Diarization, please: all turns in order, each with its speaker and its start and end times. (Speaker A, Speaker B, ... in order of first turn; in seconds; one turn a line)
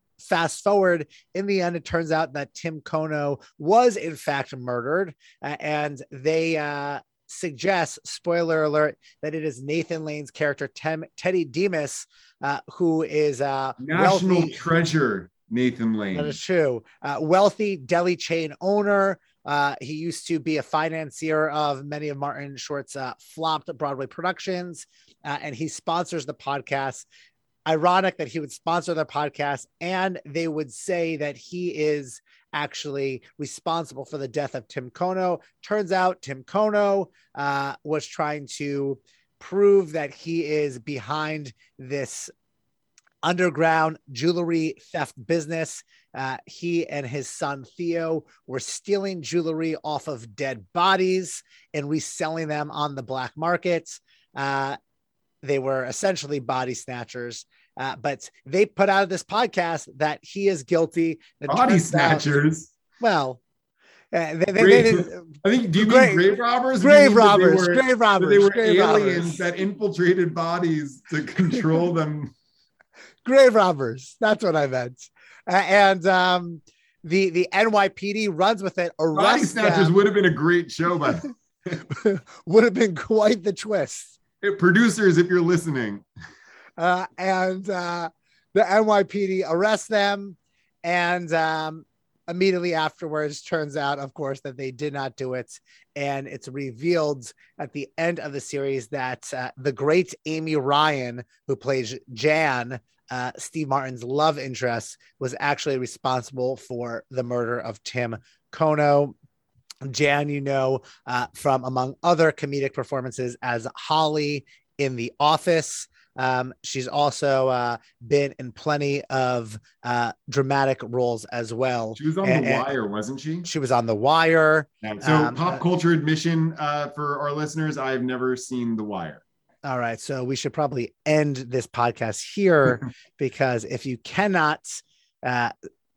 Speaker A: 0.2-14.6
Speaker B: 13.8-16.4
Speaker A: 16.1-27.1
Speaker A: 27.6-42.3
Speaker A: 43.2-54.8
Speaker A: 55.4-62.4
Speaker B: 61.5-62.7
Speaker A: 63.0-63.4
Speaker A: 64.1-69.4
Speaker B: 64.5-72.3
Speaker A: 73.2-79.9
Speaker B: 79.1-81.3
Speaker A: 81.9-84.1
Speaker B: 84.4-86.0
Speaker A: 86.8-109.1
Speaker A: 109.8-122.7
Speaker B: 122.0-123.5
Speaker A: 123.4-125.6
Speaker B: 124.8-129.2
Speaker A: 129.6-135.5